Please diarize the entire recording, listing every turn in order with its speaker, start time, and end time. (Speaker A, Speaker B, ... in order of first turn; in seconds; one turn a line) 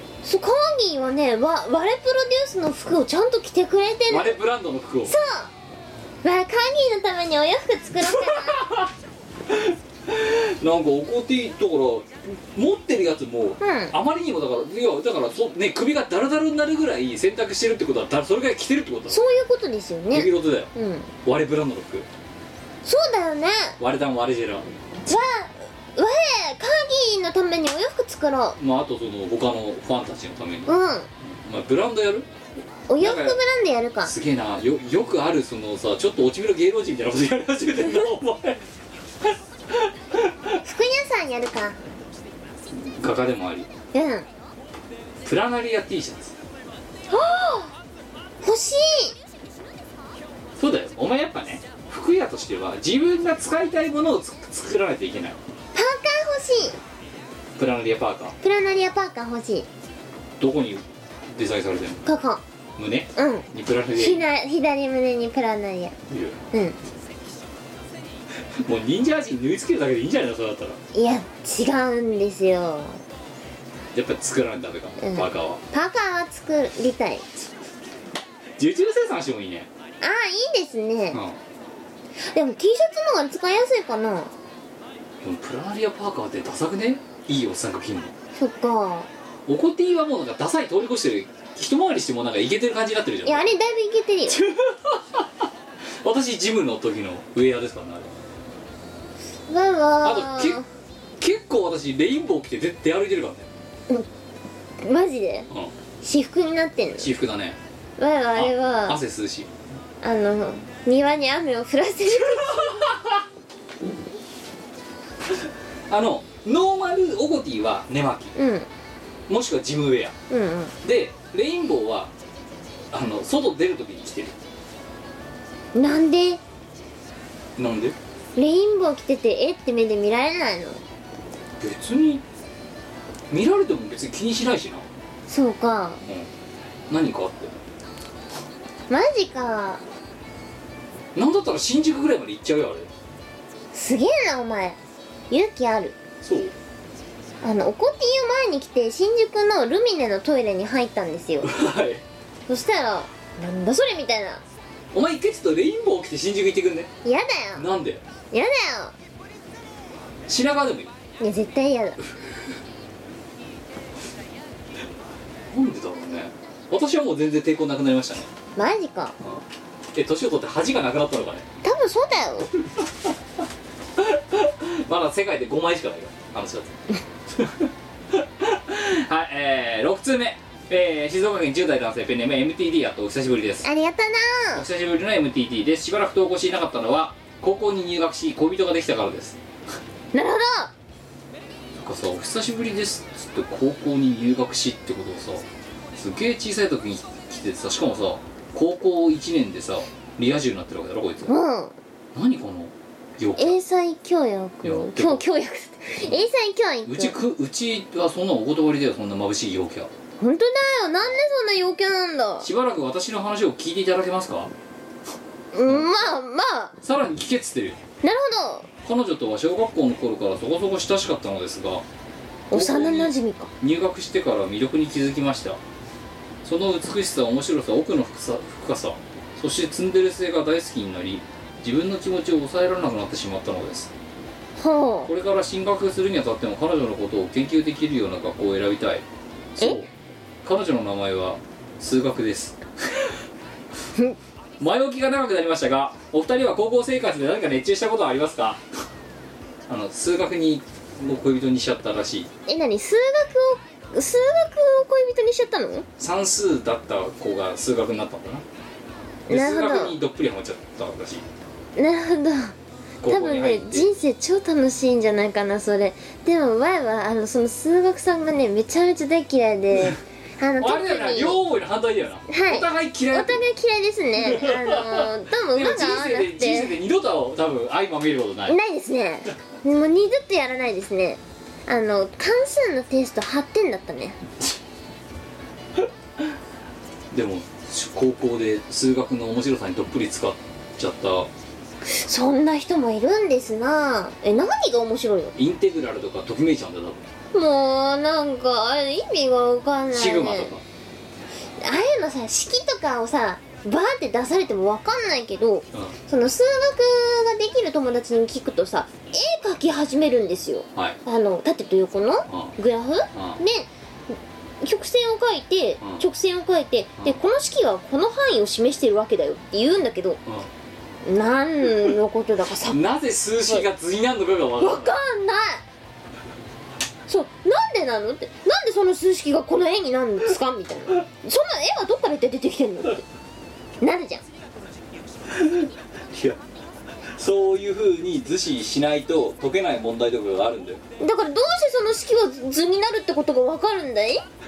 Speaker A: 0.2-4.4
Speaker B: 4.1-5.2
Speaker A: 5.1-5.5
Speaker A: 6.2-8.7
Speaker B: 8.0-8.9
Speaker B: 9.5-19.2
Speaker A: 13.6-13.9
Speaker A: 19.1-21.1
Speaker B: 20.1-20.7
Speaker B: 21.2-22.1
Speaker A: 22.8-23.8
Speaker B: 23.8-24.7
Speaker A: 25.1-28.6
Speaker B: 28.6-32.3
Speaker A: 30.7-31.1
Speaker A: 32.9-34.1
Speaker B: 33.0-33.4
Speaker B: 34.0-38.6
Speaker B: 39.2-40.6
Speaker A: 40.6-41.8
Speaker B: 42.7-43.7
Speaker A: 43.9-44.3
Speaker B: 45.2-46.4
Speaker A: 47.1-47.7
Speaker A: 48.4-49.1
Speaker B: 50.6-55.4
Speaker A: 55.8-56.8
Speaker B: 57.6-58.4
Speaker A: 58.4-59.7
Speaker B: 60.4-62.0
Speaker A: 62.0-62.4
Speaker B: 62.8-64.2
Speaker A: 63.2-66.0
Speaker B: 66.1-66.4
Speaker A: 66.5-66.8
Speaker B: 68.6-70.8
Speaker A: 70.9-73.0
Speaker B: 73.9-75.6
Speaker A: 75.0-77.3
Speaker B: 78.6-79.7
Speaker A: 80.0-81.2
Speaker B: 81.1-81.4
Speaker A: 82.2-84.3
Speaker B: 85.2-88.1
Speaker A: 88.4-89.1
Speaker B: 89.5-93.5
Speaker A: 93.2-94.4
Speaker B: 94.3-95.5
Speaker B: 96.0-98.1
Speaker A: 99.5-100.7
Speaker B: 100.0-100.6
Speaker B: 101.2-103.5
Speaker A: 104.8-105.5
Speaker A: 106.0-107.1
Speaker B: 107.0-107.6
Speaker A: 108.0-109.0
Speaker B: 108.3-109.5
Speaker A: 110.0-112.9
Speaker B: 112.1-113.2
Speaker B: 115.9-118.3
Speaker A: 118.4-118.7
Speaker B: 119.3-120.2
Speaker A: 120.3-120.7
Speaker B: 120.8-122.1
Speaker B: 122.9-124.4
Speaker A: 125.7-126.4
Speaker B: 127.6-128.0
Speaker A: 128.4-130.8
Speaker B: 131.6-132.2
Speaker B: 133.3-134.9
Speaker A: 135.3-136.0
Speaker B: 136.9-137.6
Speaker A: 138.9-139.8
Speaker B: 141.2-142.9
Speaker A: 143.7-144.8
Speaker A: 145.3-145.9
Speaker B: 146.2-146.5
Speaker A: 147.4-151.5
Speaker B: 151.4-152.0
Speaker A: 152.5-154.4
Speaker B: 154.9-156.9
Speaker A: 157.1-157.7
Speaker B: 157.6-158.0
Speaker A: 158.3-158.9
Speaker B: 160.3-160.9
Speaker A: 161.2-162.0
Speaker B: 165.5-168.3
Speaker A: 168.6-169.2
Speaker B: 169.2-171.5
Speaker A: 171.6-172.5
Speaker B: 172.7-173.1
Speaker B: 174.0-176.8
Speaker B: 177.3-183.7
Speaker A: 183.6-184.7
Speaker B: 184.5-189.4
Speaker A: 190.1-190.7
Speaker B: 191.8-201.3
Speaker A: 201.3-201.8
Speaker B: 202.1-203.6
Speaker A: 203.4-207.2
Speaker B: 204.6-205.3
Speaker B: 206.9-209.9
Speaker A: 210.2-212.5
Speaker B: 212.4-214.5
Speaker A: 215.5-216.8
Speaker B: 215.7-216.1
Speaker B: 216.8-217.8
Speaker A: 218.0-218.7
Speaker B: 218.8-221.8
Speaker A: 222.5-223.5
Speaker B: 222.5-225.6
Speaker B: 226.4-233.9
Speaker A: 234.6-235.1
Speaker B: 235.1-239.1
Speaker B: 239.6-239.9
Speaker B: 240.4-243.2
Speaker B: 244.6-248.6
Speaker B: 249.7-252.3
Speaker A: 252.5-255.9
Speaker B: 256.0-258.4
Speaker A: 259.3-260.0
Speaker B: 259.3-261.3
Speaker A: 261.8-262.6
Speaker B: 263.0-263.9
Speaker A: 263.1-271.4
Speaker B: 270.6-273.5
Speaker A: 272.3-276.8
Speaker B: 274.2-278.6
Speaker A: 278.5-284.2
Speaker B: 285.8-286.3
Speaker B: 287.1-291.3
Speaker A: 291.8-295.4
Speaker B: 295.4-297.1
Speaker A: 297.3-300.5
Speaker B: 299.9-300.6
Speaker A: 301.6-320.2
Speaker B: 312.3-312.6
Speaker B: 313.1-313.4
Speaker A: 321.0-322.8
Speaker B: 322.7-325.0
Speaker A: 324.6-325.6
Speaker A: 327.1-333.1
Speaker A: 333.8-334.2
Speaker B: 335.3-336.4
Speaker B: 337.1-340.8
Speaker A: 341.0-344.2